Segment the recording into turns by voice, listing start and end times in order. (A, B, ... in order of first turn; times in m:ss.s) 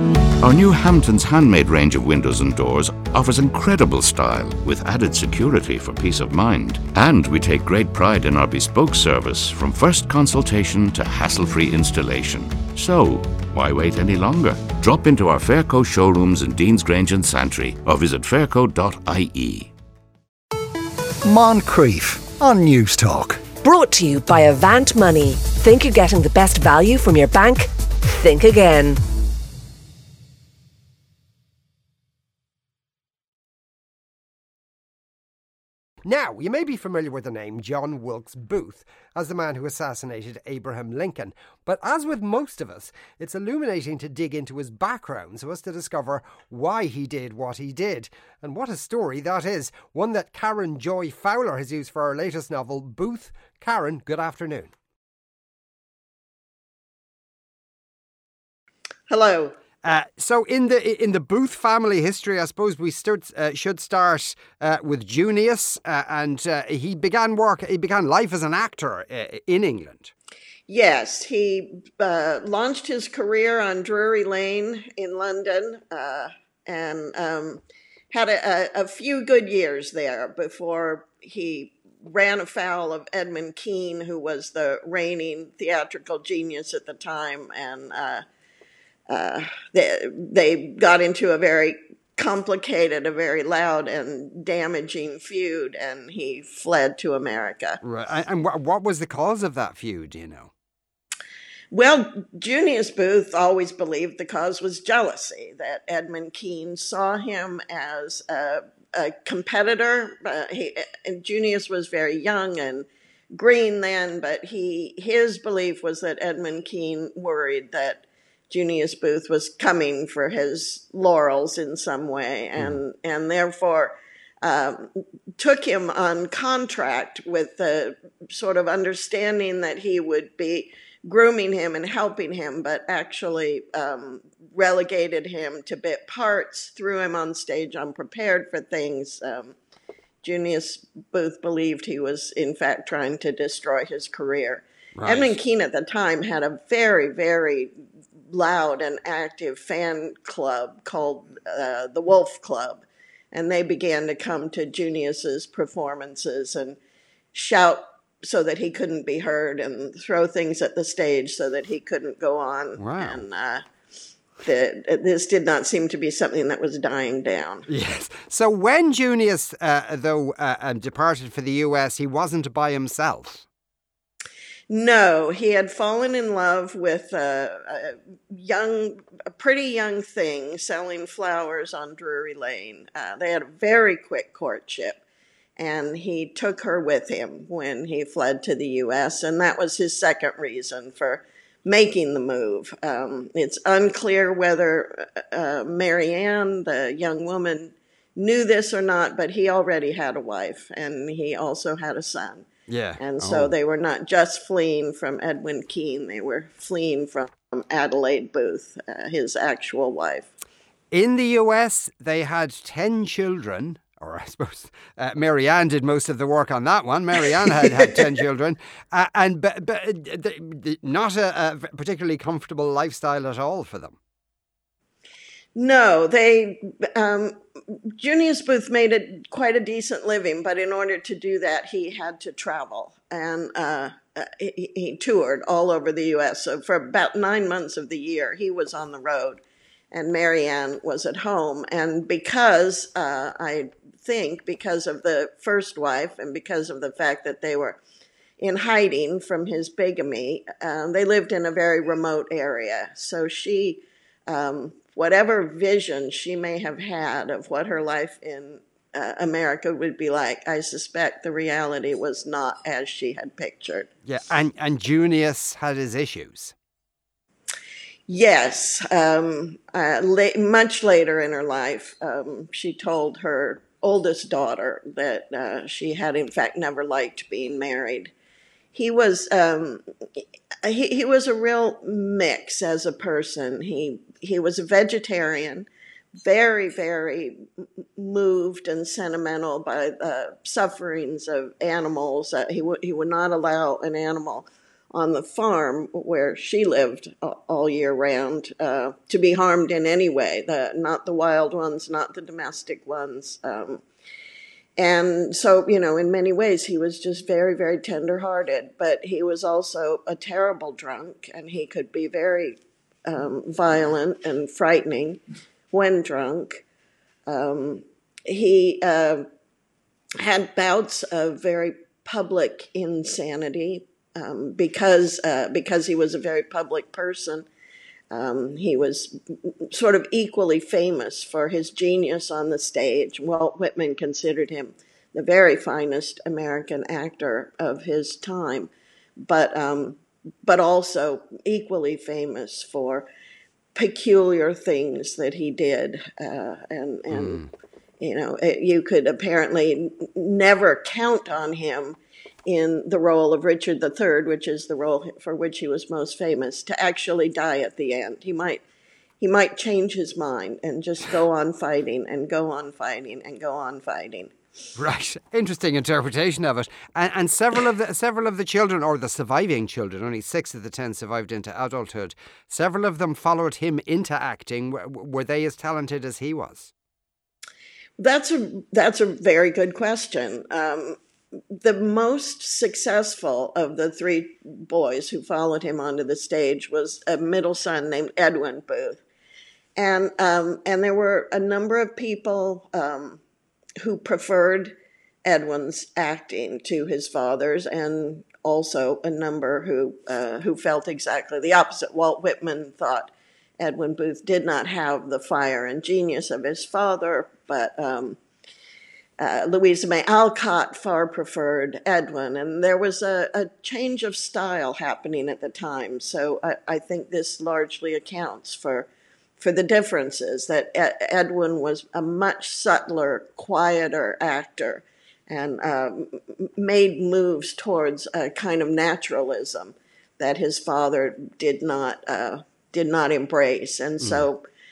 0:00.4-0:19.7 A
0:21.2-0:23.5 B
0:23.6-0:29.0 C
0:36.0-0:54.7 D
0:59.1-0:59.5 E
0:59.8-1:10.1 D
1:10.7-1:28.2 E
1:29.1-1:37.8 E
1:37.8-1:40.5 D
1:41.7-2:19.5 E
2:20.2-2:27.7 E
2:25.0-2:25.4 D
2:28.3-2:36.8 E
2:37.3-2:43.6 E
2:42.8-2:43.2 D
2:44.4-2:47.7 E
2:47.7-2:53.4 D
2:54.7-3:05.0 E
3:05.6-3:22.4 E
3:22.7-3:23.5 D
3:23.0-3:30.3 E
3:30.9-3:44.0 D
3:45.5-4:07.8 E
4:08.4-4:23.9 E
4:24.0-4:26.5 D
4:28.1-4:38.1 E
4:38.7-4:39.8 E
4:40.6-4:45.7 E
4:46.2-4:47.4 E
4:48.0-5:03.8 E
5:04.8-5:15.2 E
5:15.7-5:16.6 E
5:17.3-5:19.2 E
5:20.2-5:27.5 E
5:28.1-5:29.2 E
5:29.7-5:38.7 E
5:39.2-5:43.1 E
5:43.7-5:47.4 E
5:48.0-5:58.6 E
5:59.2-6:04.3 E
6:04.8-6:16.7 D
6:18.0-6:21.0 E
6:21.5-6:29.0 E
6:29.8-6:33.2 E
6:33.8-6:48.2 E
6:49.2-7:14.4 E